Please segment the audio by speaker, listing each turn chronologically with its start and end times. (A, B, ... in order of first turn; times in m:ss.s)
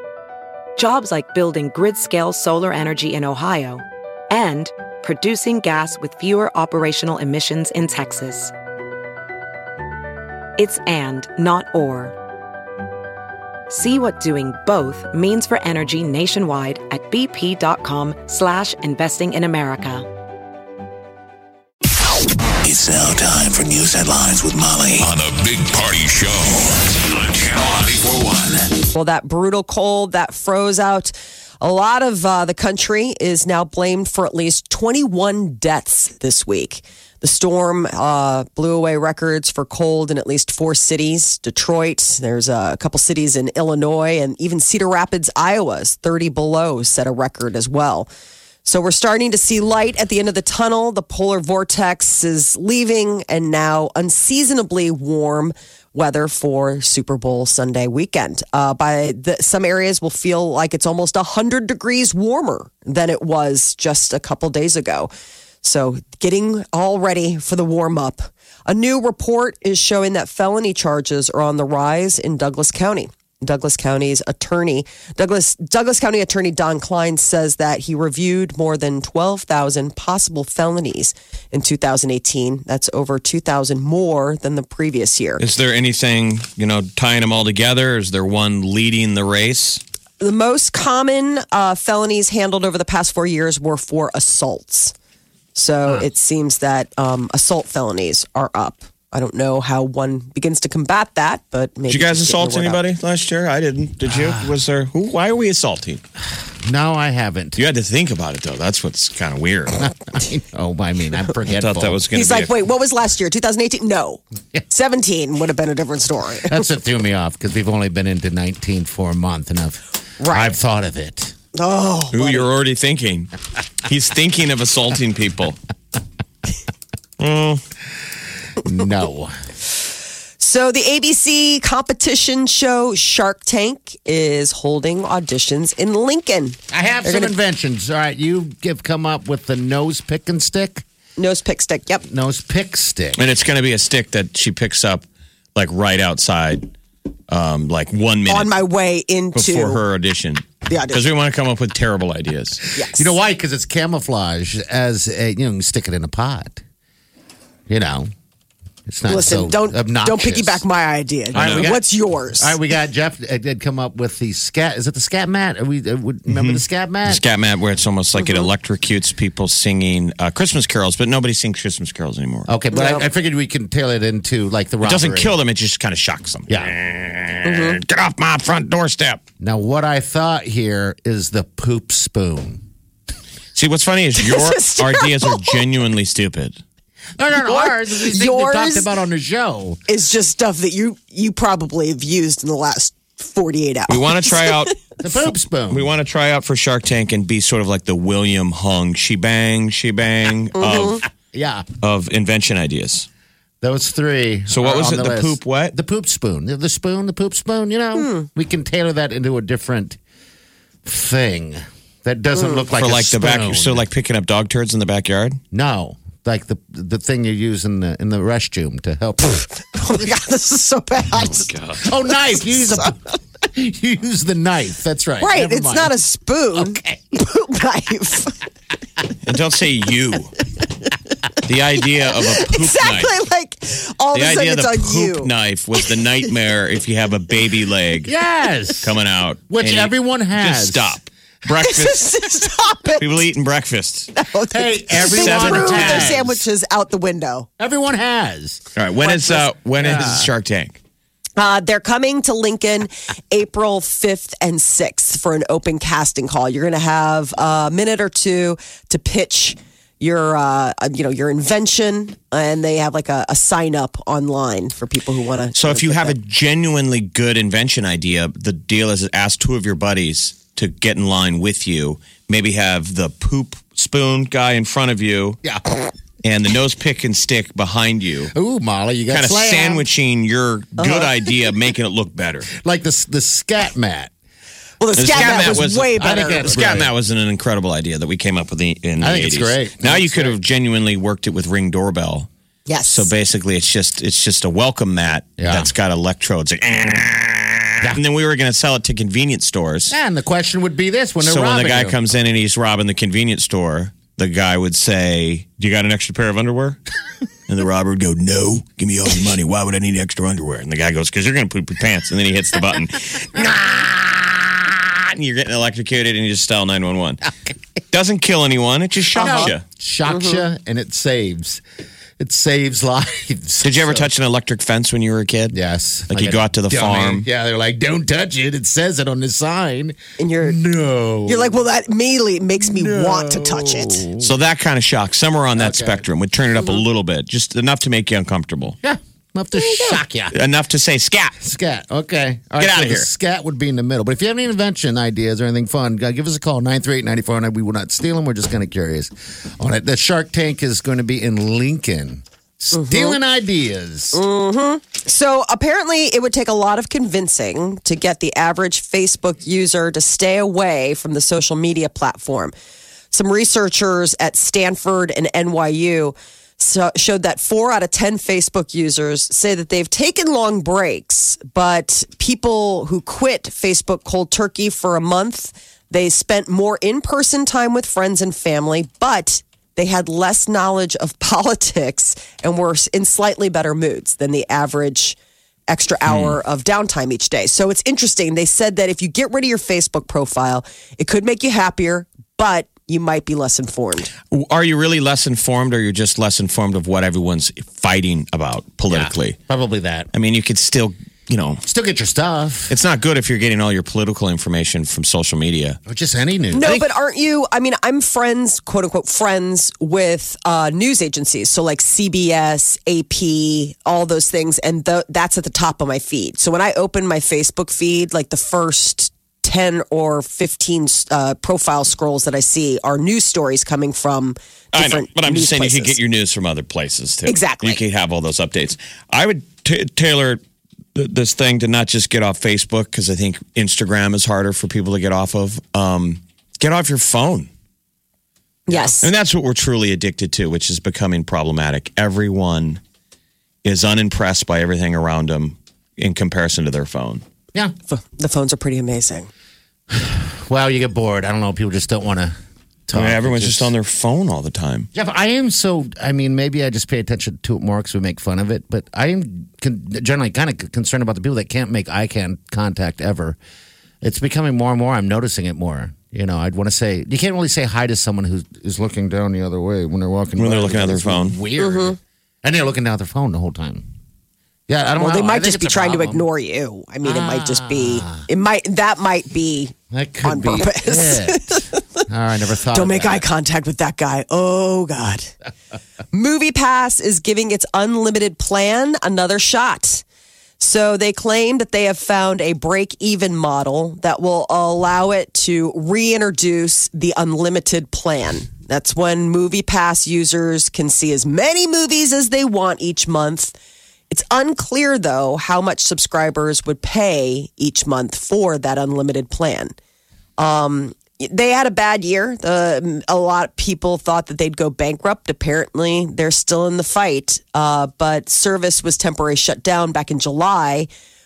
0:00.8-0:08.5 A
0:10.6-0:12.2 A
0:13.7-0:20.1 A
0:22.6-0:28.9 B
0:28.9-0:48.1 C
0:48.6-1:05.1 C
1:05.6-1:25.4 C
1:25.4-1:29.8 D
1:30.2-1:34.9 C
1:35.6-1:42.8 C
1:41.9-1:46.0 D
1:44.1-1:44.6 E
1:46.6-1:47.6 E
1:47.6-1:49.9 D
1:49.8-1:52.0 E
1:51.5-1:52.6 D
1:52.1-1:56.6 C
1:56.4-2:01.4 E
2:00.2-2:00.6 C
2:01.6-2:02.5 C
2:02.1-2:03.3 D
2:03.8-2:05.6 D
2:07.2-2:07.6 D
2:08.6-2:09.3 E
2:10.4-2:17.3 C
2:16.7-2:20.8 E
2:21.2-2:22.0 C
2:22.1-2:23.2 E
2:23.2-2:26.7 D
2:27.3-2:28.6 D
2:28.3-2:29.8 C
2:29.4-2:32.6 D
2:30.7-2:31.0 C
2:32.8-2:33.1 C
2:32.8-2:36.6 E
2:37.7-2:38.1 E
2:38.9-2:40.6 E
2:39.1-2:42.6 C
2:41.3-2:41.7 D
2:41.3-2:47.2 E
2:46.3-2:52.5 D
2:48.2-2:48.5 C
2:52.5-2:55.4 E
2:52.7-2:53.1 C
2:54.8-2:59.2 D
2:57.4-2:57.8 C
2:59.4-3:02.6 E
3:03.6-3:06.6 D
3:04.2-3:05.6 C
3:07.2-3:09.8 E
3:07.5-3:08.9 C
3:09.9-3:14.7 C
3:13.9-3:14.8 D
3:15.0-3:15.9 E
3:15.7-3:21.0 D
3:20.6-3:21.0 C
3:21.3-3:21.7 E
3:21.8-3:23.1 D
3:23.6-3:30.0 E
3:24.5-3:25.8 D
3:28.0-3:28.3 C
3:30.8-3:33.8 E
3:32.8-3:35.4 D
3:35.5-3:40.0 E
3:39.7-3:41.5 C
3:41.2-3:41.8 D
3:41.7-3:46.0 E
3:42.6-3:42.9 C
3:45.2-3:48.4 C
3:46.5-3:47.0 E
3:49.2-3:50.3 D
3:51.4-3:53.1 D
3:52.1-3:55.3 C
3:54.1-3:58.1 D
3:58.0-3:59.0 E
3:58.8-4:02.2 D
3:59.5-4:01.0 E
4:01.6-4:03.2 C
4:03.0-4:04.1 D
4:04.2-4:07.5 C
4:04.5-4:06.4 E
4:05.1-4:06.2 D
4:07.6-4:08.6 E
4:08.8-4:10.8 D
4:09.0-4:09.5 C
4:09.8-4:10.3 E
4:11.4-4:26.2 C
4:25.6-4:35.4 D
4:35.4-4:35.8 E
4:36.2-4:38.3 D
4:38.3-4:39.9 E
4:39.1-4:42.5 D
4:42.5-4:44.1 E
4:44.8-4:46.6 C
4:45.0-4:52.3 D
4:45.1-4:46.9 E
4:49.0-4:50.4 E
4:52.7-4:53.1 C
4:52.9-4:59.9 D
4:55.4-4:55.7 E
4:59.9-5:02.0 E
5:01.2-5:06.8 D
5:07.5-5:17.3 D
5:17.9-5:19.6 D
5:19.2-5:19.5 C
5:19.2-5:21.6 E
5:20.1-5:20.4 C
5:22.2-5:24.1 E
5:23.6-5:25.6 D
5:25.5-5:31.6 E
5:26.1-5:27.3 D
5:30.2-5:30.6 C
5:31.3-5:34.1 C
5:32.6-5:34.3 E
5:34.2-5:38.8 D
5:35.6-5:36.0 E
5:38.8-5:40.4 E
5:39.6-5:40.0 C
5:40.3-5:41.4 D
5:41.4-5:54.2 E
5:42.6-5:43.1 D
5:52.7-5:53.2 C
5:54.1-6:02.5 C
6:03.1-6:25.2 C
6:25.7-6:34.1 C
6:26.1-6:26.4 D
6:34.3-6:39.4 D
6:38.9-6:40.1 E
6:40.1-6:41.6 D
6:41.6-6:42.8 E
6:42.7-6:45.8 D
6:45.9-6:46.8 E
6:46.5-7:06.0 C
7:04.7-7:10.4 D
7:07.3-7:07.8 C
7:11.0-7:17.5 D
7:18.7-7:19.1 C
7:18.7-7:22.8 D
7:23.6-7:27.2 D
7:27.9-7:29.3 C
7:29.9-7:32.4 E
7:32.9-7:33.7 E
7:32.9-7:34.9 D
7:34.9-7:43.4 E
7:44.0-7:53.8 E
7:50.4-7:51.4 D
7:51.6-7:52.0 C
7:54.7-7:56.3 E
7:55.0-8:02.0 C
7:57.0-7:58.3 E
7:59.9-8:03.2 E
8:02.7-8:05.3 C
8:06.1-8:10.0 C
8:10.6-8:23.6 C
8:24.1-8:29.7 C
8:30.4-8:40.9 C